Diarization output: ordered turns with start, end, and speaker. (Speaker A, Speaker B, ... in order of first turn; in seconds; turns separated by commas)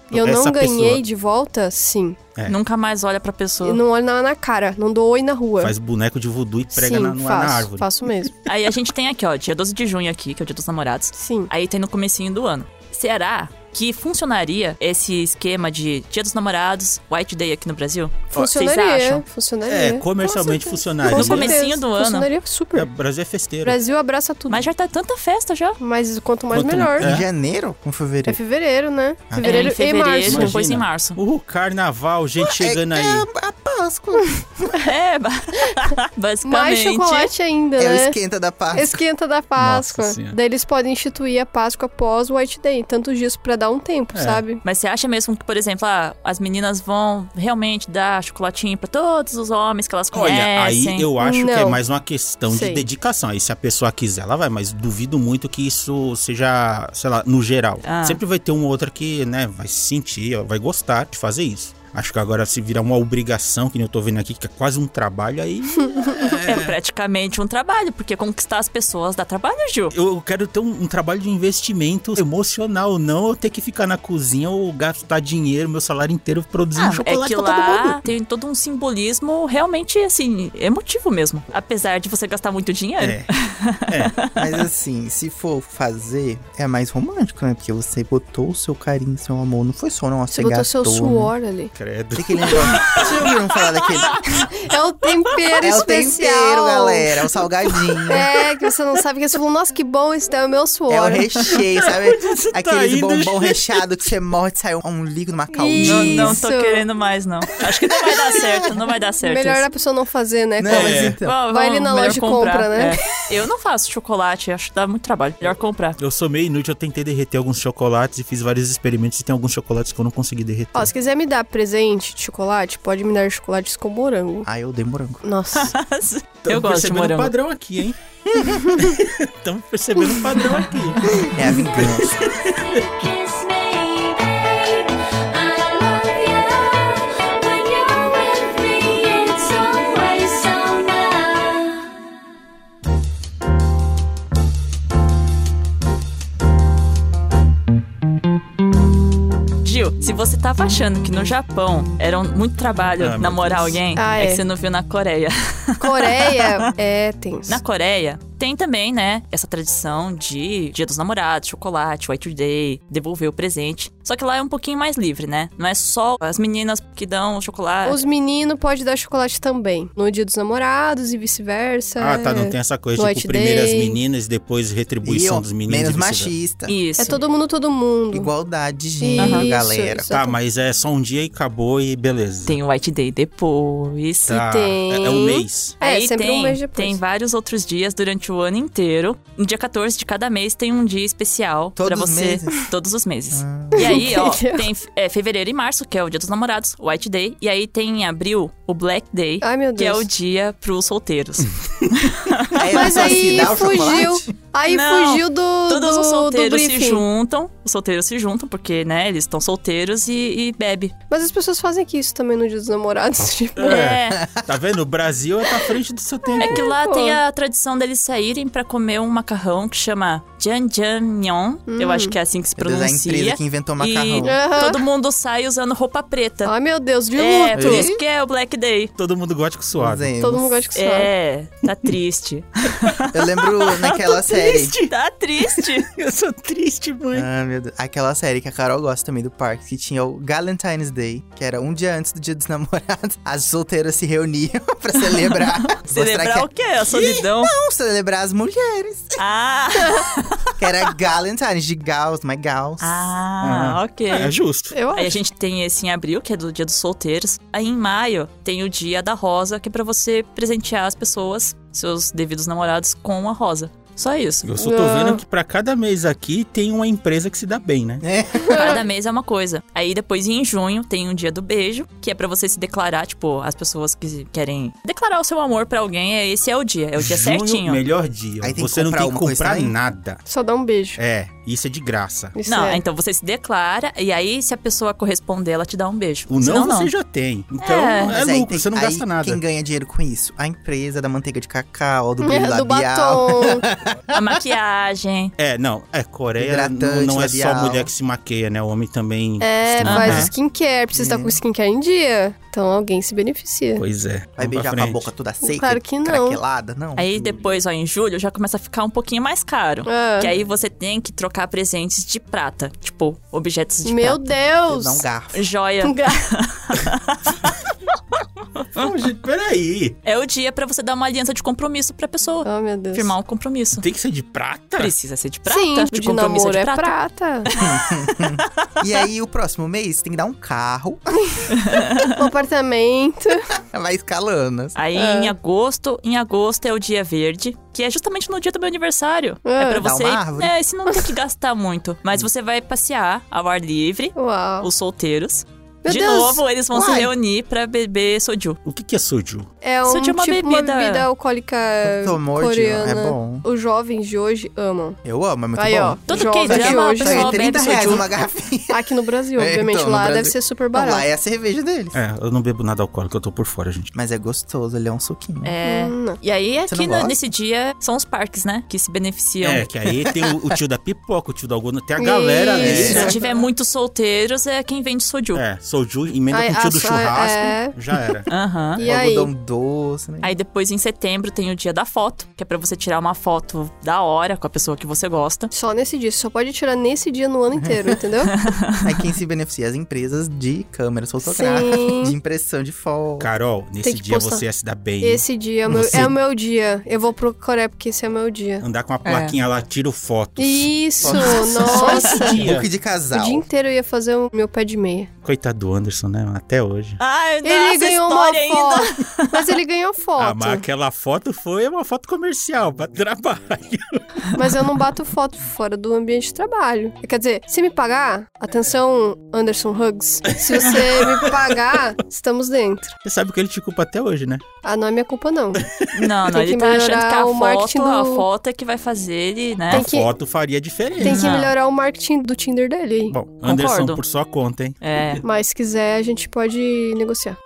Speaker A: 0.1-2.2, Speaker B: 0.1-1.0, Speaker C: 2.5-3.8, Speaker A: 3.6-5.7, Speaker B: 5.6-7.9, Speaker A: 6.7-8.3, Speaker C: 8.5-19.2, Speaker A: 11.2-11.5, Speaker A: 18.3-22.9, Speaker B: 19.7-21.6, Speaker C: 21.1-22.3, Speaker B: 22.7-23.8, Speaker A: 23.6-24.6, Speaker C: 24.5-25.8, Speaker A: 25.8-27.1, Speaker B: 26.5-27.3, Speaker D: 27.0-28.4, Speaker A: 28.3-30.6, Speaker D: 29.3-29.8, Speaker C: 29.4-31.2, Speaker B: 30.2-33.3, Speaker D: 32.5-34.8, Speaker C: 34.8-37.3, Speaker A: 36.4-38.1, Speaker D: 37.8-39.0, Speaker A: 38.7-44.6, Speaker B: 39.6-40.4, Speaker B: 44.1-44.4, Speaker C: 44.6-51.1, Speaker B: 50.1-66.8, Speaker A: 51.2-51.8, Speaker A: 52.5-52.8, Speaker C: 57.8-58.2, Speaker C: 66.3-69.9, Speaker B: 69.9-78.0, Speaker C: 76.8-84.3, Speaker B: 83.0-83.3, Speaker B: 83.9-84.2, Speaker D: 84.4-91.3, Speaker A: 90.3-91.7, Speaker B: 91.8-93.1, Speaker D: 92.2-94.2, Speaker A: 94.4-97.1, Speaker D: 95.6-98.3, Speaker A: 98.1-101.5, Speaker D: 100.9-106.4, Speaker B: 101.8-103.8, Speaker A: 105.5-106.8, Speaker C: 105.8-109.6, Speaker A: 109.2-113.0, Speaker D: 110.6-111.4, Speaker B: 110.7-111.2, Speaker C: 111.2-116.0, Speaker B: 116.0-120.9, Speaker A: 120.8-124.5, Speaker D: 124.5-125.2, Speaker A: 125.2-125.8, Speaker C: 125.5-127.3, Speaker B: 126.5-132.8, Speaker A: 128.6-128.9, Speaker D: 131.1-132.2, Speaker E: 132.7-141.8, Speaker C: 149.6-156.6, Speaker B: 153.0-153.8, Speaker A: 154.0-154.4, Speaker A: 155.8-157.6, Speaker C: 157.5-168.0, Speaker A: 167.8-174.0, Speaker B: 172.0-176.3, Speaker D: 175.0-176.8, Speaker C: 176.7-177.2, Speaker A: 177.0-178.3, Speaker D: 178.1-180.1, Speaker A: 179.0-180.4, Speaker C: 179.2-179.5, Speaker B: 180.1-182.6, Speaker C: 182.5-184.4, Speaker B: 184.3-185.8, Speaker A: 184.3-187.0, Speaker C: 185.8-203.5, Speaker D: 191.8-192.7, Speaker D: 193.3-194.1, Speaker A: 193.8-194.7, Speaker A: 199.4-200.1, Speaker D: 202.6-204.3, Speaker A: 202.7-207.1, Speaker C: 204.7-210.9, Speaker A: 211.1-213.8, Speaker B: 213.6-216.6, Speaker C: 213.6-214.2, Speaker D: 214.2-214.5, Speaker A: 216.3-217.2, Speaker C: 216.4-226.5, Speaker A: 221.7-222.2, Speaker D: 222.6-224.4, Speaker A: 224.2-224.8, Speaker A: 226.4-227.9, Speaker C: 227.2-228.9, Speaker D: 227.6-228.0, Speaker B: 229.0-230.1, Speaker D: 229.8-230.7, Speaker A: 230.2-231.1, Speaker C: 230.8-235.9, Speaker D: 233.1-234.8, Speaker B: 235.5-237.3, Speaker D: 237.1-249.2, Speaker C: 245.7-247.5, Speaker C: 249.2-250.5, Speaker D: 250.6-253.1, Speaker C: 252.8-254.3, Speaker B: 253.4-254.8, Speaker A: 254.7-255.2, Speaker C: 254.9-264.5, Speaker B: 264.4-268.0, Speaker A: 264.6-265.2, Speaker D: 268.0-268.8, Speaker A: 268.4-268.8, Speaker C: 268.5-277.8, Speaker B: 277.0-280.2, Speaker D: 278.4-279.8, Speaker A: 280.3-281.0, Speaker B: 281.0-282.4, Speaker A: 282.4-282.8, Speaker C: 282.5-286.9, Speaker B: 286.3-289.4, Speaker C: 287.6-288.1, Speaker D: 288.1-294.1, Speaker A: 292.2-293.6, Speaker C: 294.1-295.3, Speaker B: 295.4-300.3, Speaker D: 296.4-297.9, Speaker A: 299.4-303.8, Speaker C: 299.9-300.3, Speaker D: 300.9-301.4, Speaker B: 303.8-305.1, Speaker D: 304.4-307.4, Speaker A: 305.4-306.4, Speaker C: 307.0-314.3, Speaker A: 309.9-310.3, Speaker A: 313.9-315.0, Speaker D: 314.7-315.5, Speaker C: 315.3-317.4, Speaker A: 315.8-316.2, Speaker C: 318.6-318.9, Speaker B: 318.8-320.0, Speaker C: 320.1-323.9, Speaker A: 322.4-323.1, Speaker B: 323.8-324.9, Speaker C: 324.8-327.0, Speaker A: 325.5-327.5, Speaker C: 327.5-328.7, Speaker D: 327.6-331.1, Speaker C: 331.5-332.2, Speaker A: 332.0-333.5, Speaker D: 333.5-334.8, Speaker C: 334.8-348.6, Speaker A: 334.9-335.3, Speaker A: 339.4-339.9, Speaker D: 339.8-340.6, Speaker A: 344.2-344.7, Speaker A: 345.9-346.4, Speaker D: 346.7-347.1, Speaker B: 348.6-349.5, Speaker A: 349.6-355.0, Speaker C: 349.9-351.1, Speaker D: 351.8-353.4, Speaker D: 355.1-362.0, Speaker A: 355.6-357.5, Speaker C: 356.1-358.1, Speaker A: 358.7-361.1, Speaker B: 361.9-363.9, Speaker D: 363.9-365.5, Speaker C: 365.4-369.6, Speaker A: 365.6-366.2, Speaker D: 366.7-367.2, Speaker B: 369.4-373.1, Speaker D: 369.9-370.6, Speaker A: 372.0-373.5, Speaker C: 372.6-375.4, Speaker D: 372.6-373.2, Speaker B: 375.3-378.3, Speaker A: 376.3-377.8, Speaker C: 378.3-378.8, Speaker A: 378.8-379.3, Speaker D: 378.8-380.3, Speaker C: 380.2-385.5, Speaker A: 385.5-388.3, Speaker D: 387.6-388.0, Speaker C: 388.3-388.8, Speaker D: 388.8-393.3, Speaker A: 391.2-392.1, Speaker B: 393.2-396.1, Speaker A: 393.8-394.4, Speaker A: 395.0-398.6, Speaker B: 398.6-402.7, Speaker C: 399.1-399.4, Speaker A: 400.4-402.4, Speaker D: 401.0-403.5, Speaker A: 403.1-405.1, Speaker B: 405.2-407.0, Speaker C: 407.0-409.6, Speaker A: 407.4-410.6, Speaker B: 410.2-414.0, Speaker A: 414.4-422.9, Speaker B: 420.3-421.6, Speaker B: 423.0-424.4, Speaker A: 424.6-425.6, Speaker B: 425.6-425.9, Speaker C: 425.9-429.9, Speaker A: 426.3-428.3, Speaker A: 429.7-430.1, Speaker B: 429.7-431.4, Speaker A: 431.0-433.1, Speaker C: 431.0-431.5, Speaker B: 433.1-435.2, Speaker C: 433.4-434.0, Speaker C: 434.8-435.2, Speaker A: 435.2-437.4